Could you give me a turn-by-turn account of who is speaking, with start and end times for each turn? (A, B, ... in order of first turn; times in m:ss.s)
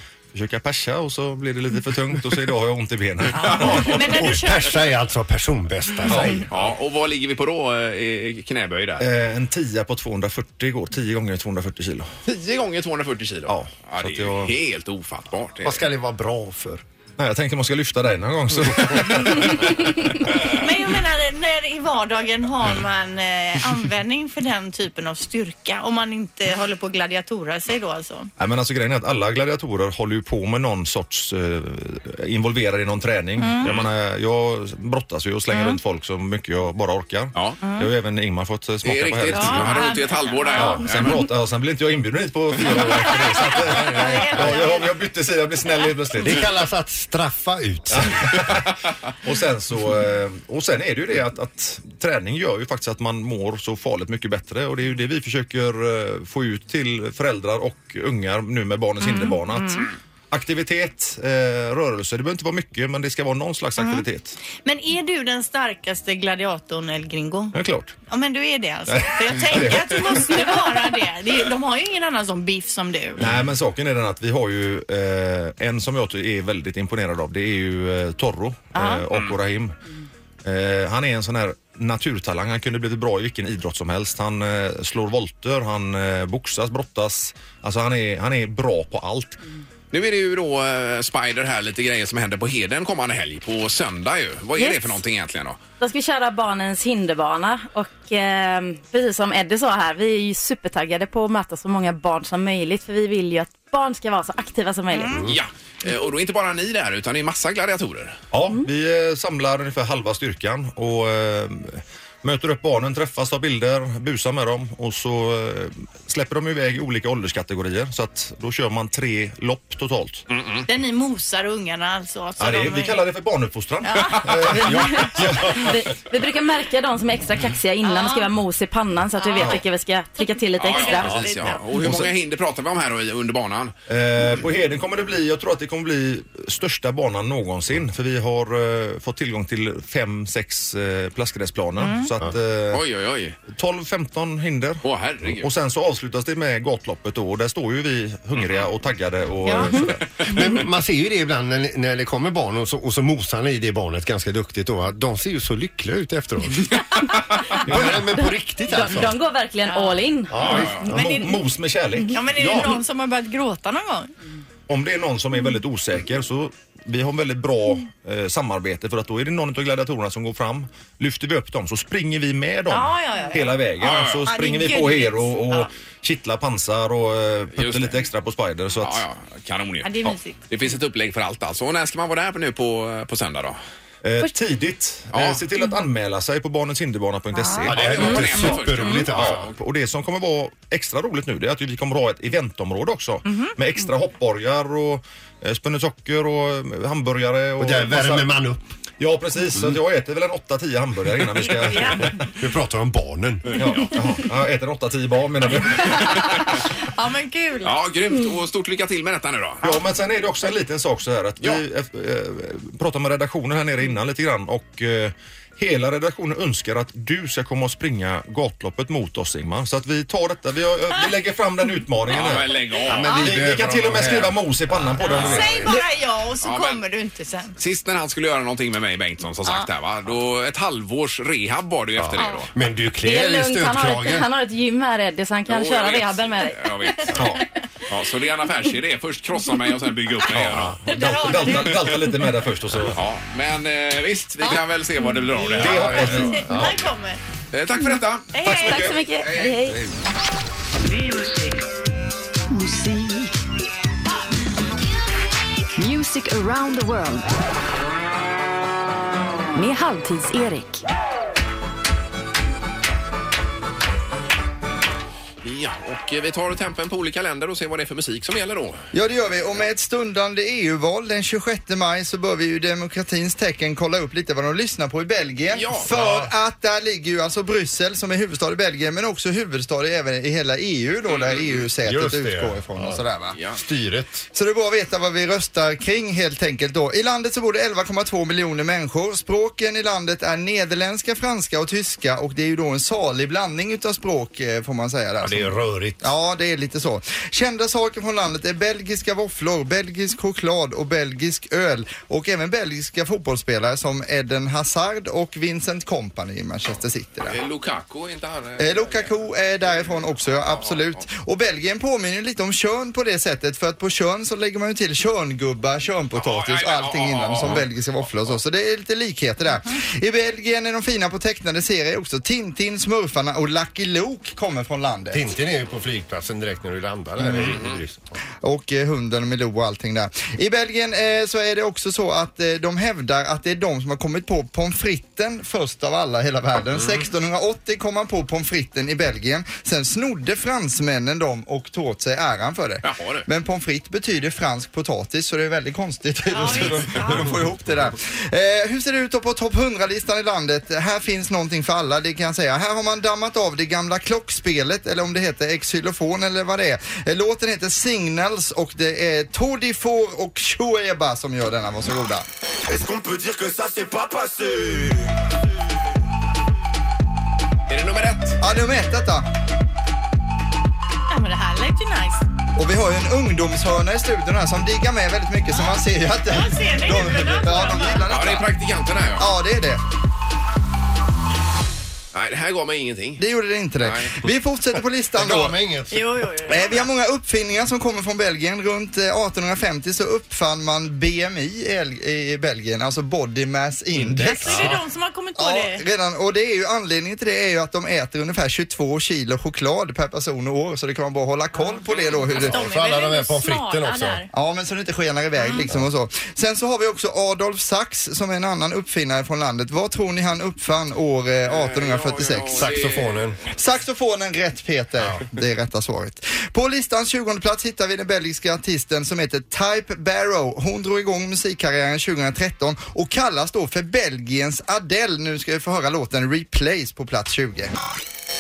0:00.3-0:04.4 A
0:03.4-0:04.8 B
0:04.0-0:06.5 C
0:06.1-0:06.5 A
0:06.5-0:09.0 D
0:09.0-0:12.1 A
0:12.3-0:15.8 D
0:13.5-0:14.6 A
0:15.6-0:16.8 C
0:17.2-0:20.5 A
0:20.4-0:28.3 B
0:28.4-0:46.5 A
0:33.4-0:33.7 B
0:33.6-0:33.9 D
0:38.8-0:41.2 D
0:39.3-0:40.8 B
0:43.5-0:44.5 C
0:43.8-0:44.9 B
0:46.2-0:48.4 C
0:47.9-0:48.7 A
0:49.2-1:04.4 A
0:59.1-0:59.9 B
1:03.8-1:04.0 B
1:04.6-1:07.6 B
1:07.5-1:07.9 A
1:08.1-1:13.3 B
1:08.9-1:10.7 A
1:13.2-1:19.8 A
1:18.7-1:19.0 B
1:20.4-1:29.4 A
1:29.9-1:35.6 D
1:34.6-1:35.0 E
1:35.8-1:45.3 E
1:45.1-1:45.4 C
1:45.3-1:48.2 D
1:48.3-2:00.2 A
2:00.3-2:00.7 D
2:00.7-2:03.0 B
2:02.4-2:05.8 A
2:03.8-2:04.4 B
2:04.5-2:11.3 E
2:04.9-2:05.6 C
2:07.8-2:08.3 B
2:09.2-2:09.6 B
2:09.4-2:09.6 A
2:10.2-2:11.6 B
2:10.6-2:13.8 D
2:11.7-2:12.1 A
2:13.9-2:22.8 A
2:21.8-2:22.1 B
2:22.7-2:23.4 D
2:23.5-2:30.0 A
2:24.8-2:25.5 D
2:29.4-2:29.7 B
2:30.2-2:36.8 C
2:37.6-2:39.2 C
2:37.7-2:38.1 A
2:38.7-2:40.6 E
2:39.7-2:40.0 B
2:40.3-2:40.9 C
2:40.4-2:42.7 A
2:40.4-2:40.8 D
2:40.8-2:41.4 B
2:42.1-2:44.1 B
2:42.4-2:42.7 C
2:44.7-2:59.0 A
2:52.7-2:53.6 B
2:53.8-2:54.3 D
2:54.3-2:55.7 B
2:57.6-2:58.0 D
2:58.8-3:03.6 D
2:59.8-3:00.4 B
3:04.0-3:18.3 A
3:05.1-3:05.4 D
3:07.3-3:07.7 B
3:07.6-3:09.5 C
3:07.7-3:09.5 D
3:13.3-3:13.5 B
3:17.6-3:18.6 C
3:19.0-3:22.3 A
3:21.6-3:22.1 B
3:22.3-3:23.6 C
3:23.6-3:26.5 A
3:26.8-3:27.8 B
3:27.6-3:29.7 D
3:29.6-3:45.7 A
3:42.1-3:44.3 D
3:42.9-3:45.7 C
3:43.0-3:43.3 B
3:45.0-3:47.6 B
3:45.1-3:45.7 D
3:46.4-3:46.8 D
3:47.6-3:52.5 D
3:52.0-3:54.3 C
3:52.2-3:52.4 B
3:53.0-3:57.1 E
3:55.5-3:57.2 D
3:57.1-3:57.5 A
3:57.9-4:00.8 D
4:00.3-4:03.0 A
4:00.9-4:01.8 B
4:02.9-4:06.4 D
4:05.5-4:06.7 A
4:05.6-4:06.8 C
4:06.2-4:07.2 B
4:07.5-4:09.7 D
4:08.3-4:08.9 B
4:08.4-4:09.8 E
4:12.5-4:13.3 F
4:15.8-4:17.3 F
4:19.5-4:20.8 F
4:25.4-4:28.8 D
4:28.9-4:43.4 G
4:35.5-4:35.9 D
4:35.9-4:36.3 C
4:41.1-4:41.6 D
4:41.8-4:44.3 C
4:43.4-4:43.6 D
4:44.3-5:07.4 G
4:55.2-4:56.1 C
5:07.3-5:09.1 D
5:08.6-5:25.3 G
5:09.6-5:11.0 D
5:16.1-5:18.4 D
5:25.1-5:28.1 C
5:27.2-5:27.6 G
5:27.4-5:27.8 D
5:28.4-6:02.2 G
5:36.8-5:37.1 C
5:42.8-5:43.2 D
5:46.3-5:47.3 B
6:03.4-6:04.8 A
6:07.7-6:08.4 D
6:08.4-6:09.3 G
6:11.1-6:12.2 B
6:12.6-6:18.5 G
6:15.5-6:15.8 B
6:16.3-6:18.1 B
6:18.1-6:19.3 D
6:19.2-6:19.8 G
6:22.1-6:23.2 D
6:23.2-6:25.6 G
6:23.8-6:24.2 D
6:25.1-6:26.3 C
6:25.9-6:26.8 B
6:26.5-6:34.8 G
6:34.0-6:34.8 C
6:34.4-6:35.8 B
6:35.4-6:42.6 G
6:41.6-6:44.3 B
6:42.3-6:44.2 C
6:44.3-6:52.7 G
6:45.4-6:45.6 B
6:51.5-6:53.4 D
6:52.5-6:53.4 C
6:53.5-7:07.7 G